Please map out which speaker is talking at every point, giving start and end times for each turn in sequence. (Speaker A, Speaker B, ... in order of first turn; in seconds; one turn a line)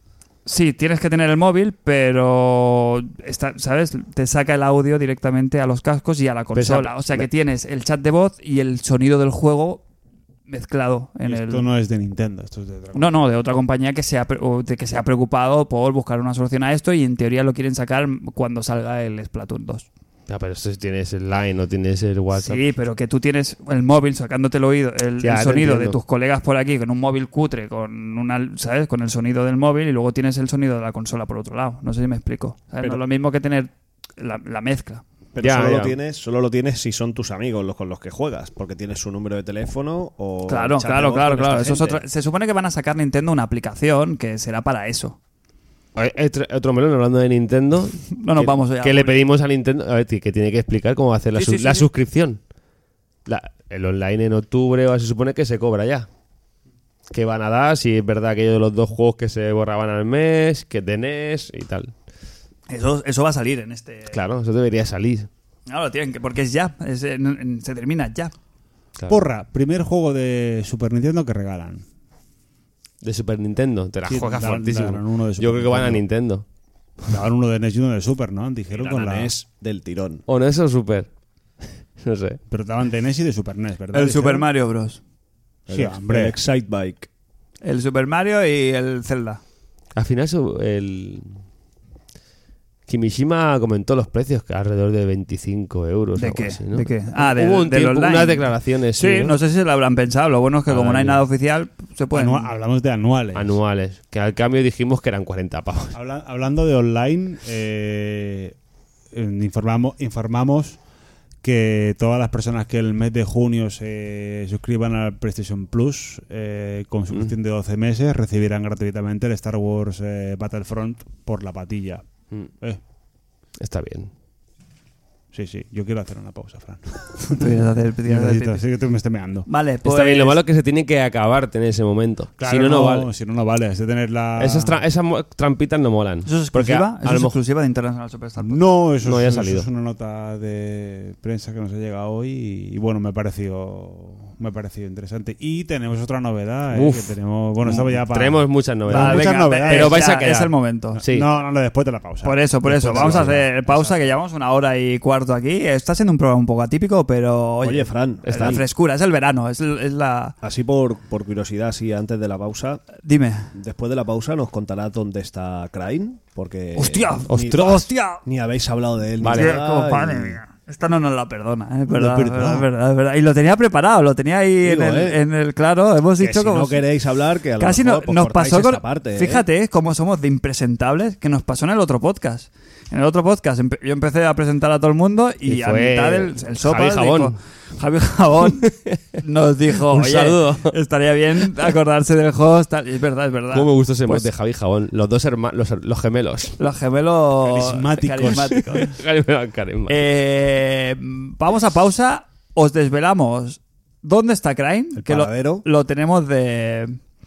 Speaker A: 0.5-9.8
Speaker B: 6.5-7.3
Speaker A: 10.5-11.7
Speaker C: 11.3-13.1
Speaker A: 12.9-19.9
Speaker B: 20.3-22.6
Speaker A: 22.4-35.0
Speaker B: 25.2-26.0
Speaker D: 35.3-42.0
Speaker B: 35.4-36.0
Speaker A: 40.5-45.2
Speaker B: 46.0-52.4
Speaker A: 48.1-49.2
Speaker A: 51.4-51.9
Speaker B: 53.3-56.1
Speaker B: 57.1-61.9
Speaker A: 62.7-64.2
Speaker B: 64.1-65.3
Speaker A: 65.7-68.3
Speaker C: 69.1-71.8
Speaker B: 73.0-76.5
Speaker C: 74.0-76.0
Speaker C: 77.1-79.3
Speaker D: 78.8-80.2
Speaker B: 80.3-81.1
Speaker B: 81.6-82.4
Speaker C: 82.5-84.5
Speaker A: 83.9-85.0
Speaker D: 85.7-87.1
Speaker C: 85.7-86.4
Speaker A: 87.6-89.4
Speaker B: 90.0-91.4
Speaker B: 92.9-99.4
Speaker A: 96.2-102.5
Speaker B: 100.7-101.2
Speaker C: 102.1-103.6
Speaker B: 103.3-106.0
Speaker C: 105.9-108.5
Speaker C: 109.1-110.8
Speaker C: 111.4-122.1
Speaker B: 123.6-124.1
Speaker C: 125.3-129.5
Speaker A: 127.3-128.6
Speaker A: 129.5-130.4
Speaker B: 129.8-133.1
Speaker C: 132.4-134.8
Speaker B: 134.4-137.3
Speaker A: 136.3-138.6
Speaker C: 138.4-153.8
Speaker B: 139.0-139.7
Speaker B: 146.7-151.3
Speaker A: 148.9-151.0
Speaker A: 152.2-160.4
Speaker B: 152.9-153.4
Speaker D: 157.6-158.6
Speaker B: 158.2-158.6
Speaker D: 160.4-162.8
Speaker A: 163.0-163.5
Speaker D: 163.5-170.4
Speaker A: 166.8-168.2
Speaker B: 167.3-167.9
Speaker B: 169.2-169.6
Speaker A: 169.3-176.8
Speaker C: 171.9-172.7
Speaker D: 174.6-175.2
Speaker D: 176.2-179.4
Speaker A: 177.6-194.3
Speaker B: 185.5-187.3
Speaker B: 188.6-189.0
Speaker B: 189.9-190.8
Speaker B: 193.5-196.6
Speaker A: 196.6-199.0
Speaker C: 197.4-198.8
Speaker B: 198.7-200.0
Speaker A: 199.9-207.0
Speaker D: 205.0-205.7